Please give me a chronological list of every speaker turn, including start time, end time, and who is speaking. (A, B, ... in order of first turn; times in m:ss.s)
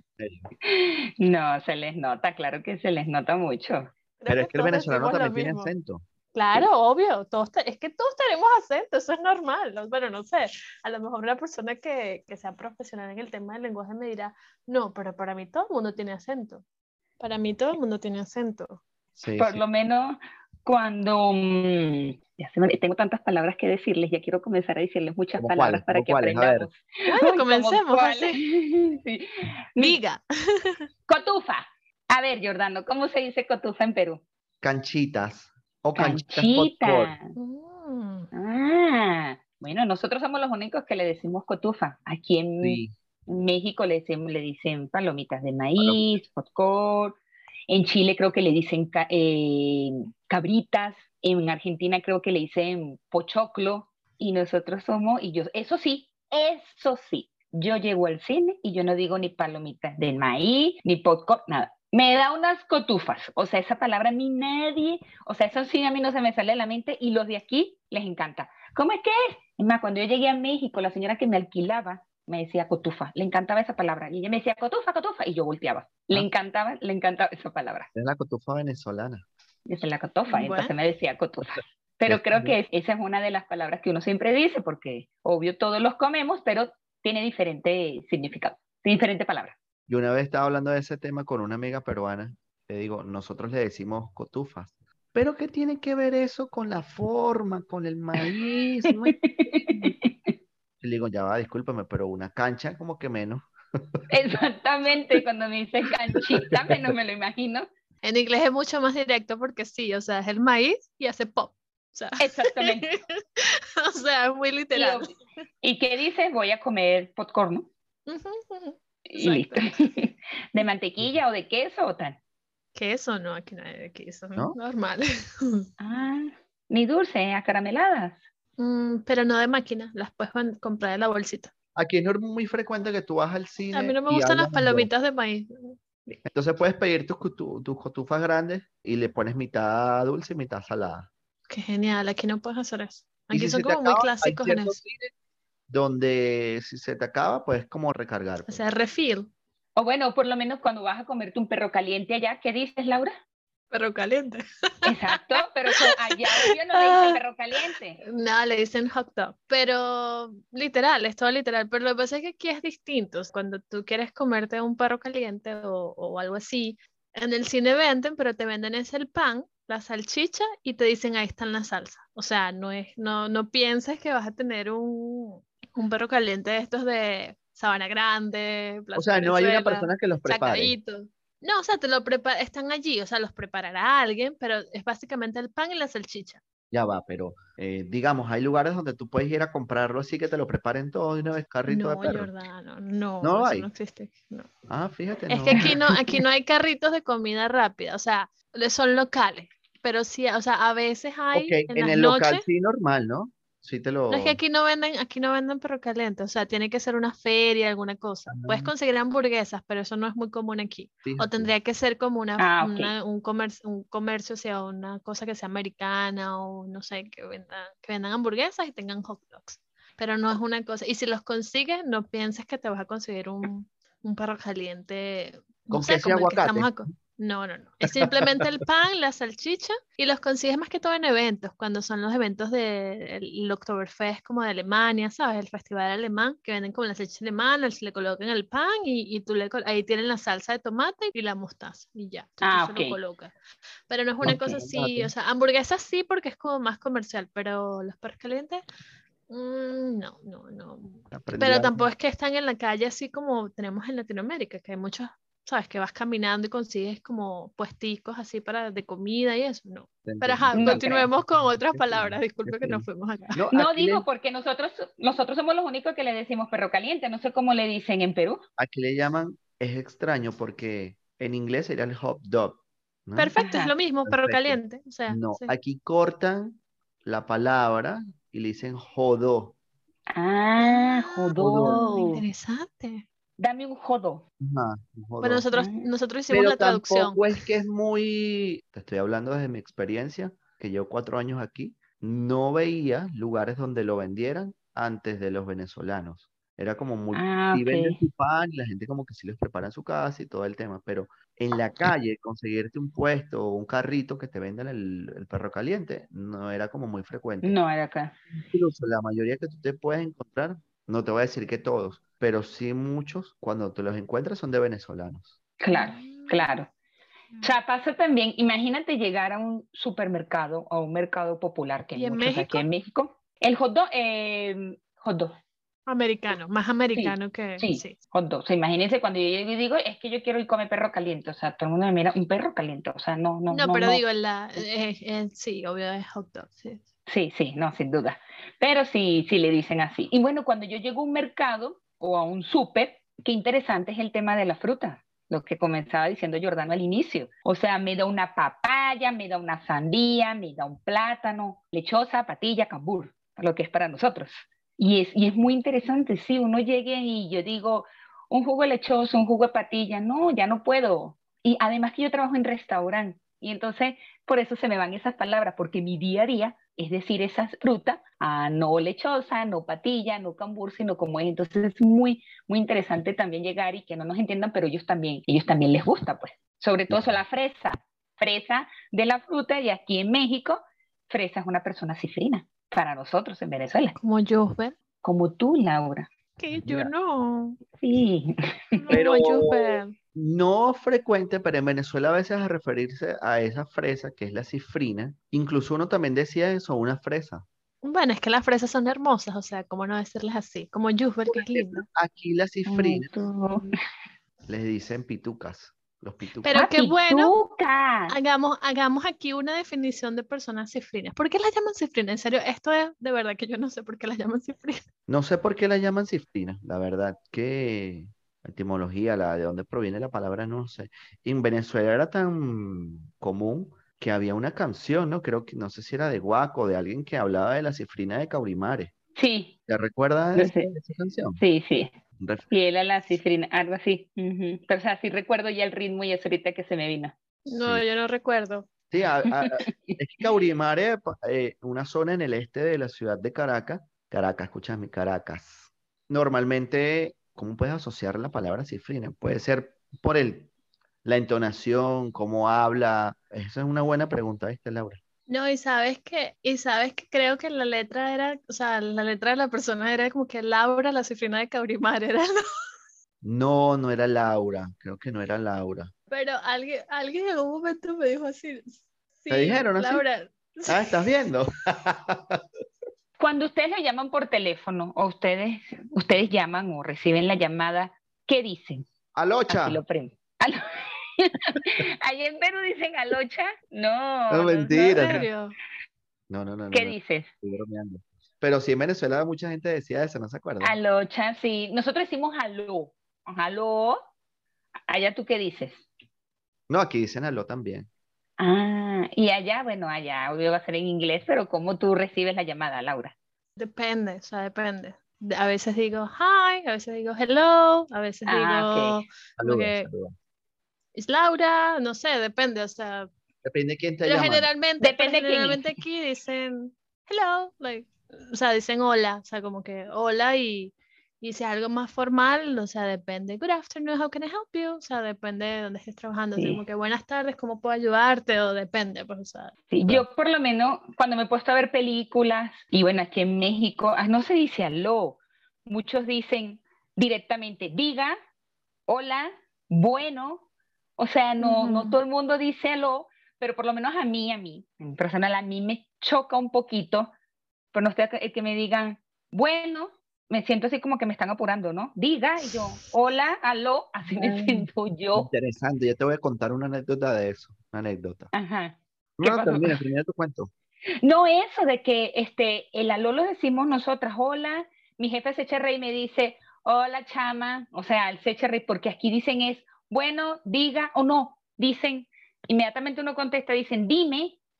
0:00.2-0:00.5 A
0:00.6-0:03.9 B
0:04.2-0:05.7 C
0:04.3-0:06.0 A
0:06.3-0:16.6 C
0:17.2-0:18.8 C
0:19.2-0:19.6 A
0:19.4-0:30.0 B
0:25.4-0:26.7 A
0:27.1-0:28.4 C
0:29.8-0:30.8 C
0:31.1-0:34.2 B
0:34.6-0:37.1 A
0:36.0-0:37.3 B
0:37.4-0:38.3 C
0:38.3-0:47.2 B
0:42.6-0:42.9 A
0:47.7-1:17.9 B
1:17.9-1:19.2 A
1:19.7-1:29.6 B
1:20.3-1:20.7 C
1:22.1-1:22.5 A
1:29.9-1:39.1 A
1:39.2-1:40.1 B
1:40.8-1:44.0 A
1:44.1-1:47.7 B
1:46.1-1:46.9 A
1:48.0-1:55.2 C
1:52.2-1:53.0 B
1:54.7-1:55.1 B
1:55.6-1:57.7 B
1:58.1-1:59.8 C
1:59.1-2:02.2 B
2:02.7-2:05.7 C
2:05.8-2:08.2 B
2:08.6-2:11.5 C
2:11.8-2:14.9 A
2:13.7-2:16.2 C
2:16.2-2:21.1 A
2:21.5-2:24.8 C
2:23.3-2:25.1 A
2:25.7-2:28.6 A
2:28.5-2:29.3 C
2:29.8-2:33.1 B
2:33.7-2:37.2 C
2:34.8-2:38.0 B
2:38.0-3:06.4 C
2:58.9-3:00.7 A
3:06.7-3:12.3 A
3:11.7-3:14.5 C
3:13.2-3:13.7 A
3:14.7-3:15.9 A
3:15.3-3:22.4 C
3:21.3-3:24.4 A
3:24.1-4:03.3 C
3:28.3-3:28.7 A
3:31.0-3:31.5 A
3:32.4-3:32.9 B
3:45.7-3:46.8 A
3:47.9-3:48.4 A
4:02.4-4:03.0 B
4:03.9-4:08.6 C
4:04.2-4:05.1 A
4:09.3-4:23.4 C
4:11.1-4:11.9 A
4:20.0-4:24.0 A
4:20.5-4:21.1 B
4:23.5-4:28.4 B
4:28.6-4:33.3 A
4:33.2-4:35.5 C
4:33.4-4:33.7 B
4:34.0-4:34.6 A
4:35.1-4:39.5 A
4:40.1-4:42.2 B
4:40.6-4:43.0 C
4:41.4-4:41.8 A
4:43.4-4:44.2 B
4:44.4-4:45.5 A
4:45.2-4:47.4 C
4:45.5-4:45.9 B
4:46.3-5:07.6 A
4:57.1-4:58.0 B
5:07.4-5:08.1 B
5:08.3-5:15.3 A
5:15.6-5:16.7 B
5:15.7-5:16.5 C
5:17.4-5:25.3 B
5:22.0-5:22.6 C
5:25.9-5:28.0 C
5:27.0-5:34.0 B
5:33.5-5:36.8 C
5:37.1-6:24.0 B
6:16.9-6:17.2 A
6:24.0-6:24.7 C
6:25.0-6:26.1 B
6:26.4-6:27.6 C
6:26.6-6:26.9 A
6:27.8-6:28.9 B
6:28.7-6:29.9 C
6:28.9-6:37.4 A
6:37.8-6:41.8 C
6:41.3-6:43.1 A
6:42.7-6:43.7 B
6:44.4-6:46.6 A
6:46.4-6:47.3 C
6:46.5-6:48.1 B
6:48.1-6:54.8 C
6:55.1-7:08.9 A
7:09.2-7:09.5 B
7:09.7-7:11.4 A
7:10.4-7:10.7 B
7:11.4-7:11.9 B
7:12.2-7:12.5 A
7:12.5-7:17.1 B
7:17.5-7:18.7 C
7:17.6-7:17.8 A
7:18.9-7:30.5 A
7:19.3-7:20.0 B
7:31.0-7:35.0 A
7:35.3-7:42.4 C
7:43.2-7:45.9 A
7:46.1-7:51.1 C
7:49.3-7:50.0 A
7:50.7-7:52.4 A
7:53.2-7:58.8 B
7:59.1-7:59.8 A
7:59.5-8:05.1 B
8:04.3-8:05.3 A
8:04.5-8:05.5 C
8:06.3-8:10.8 A
8:06.7-8:07.3 B
8:10.6-8:14.0 B
8:14.9-8:15.8 B
8:16.7-8:17.9 A
8:18.4-8:23.1 B
8:23.6-8:29.9 C
8:28.3-8:29.0 B
8:29.4-8:30.1 A
8:30.9-8:33.1 C
8:33.4-8:34.5 A
8:34.0-8:49.5 C
8:34.8-8:35.8 B
8:49.7-8:58.2 B
8:58.9-9:00.4 B
9:01.0-9:07.1 B
9:01.4-9:02.0 C
9:07.7-9:15.3 B
9:14.1-9:18.3 A
9:18.3-9:19.8 B
9:19.2-9:20.5 A
9:21.0-9:34.4 B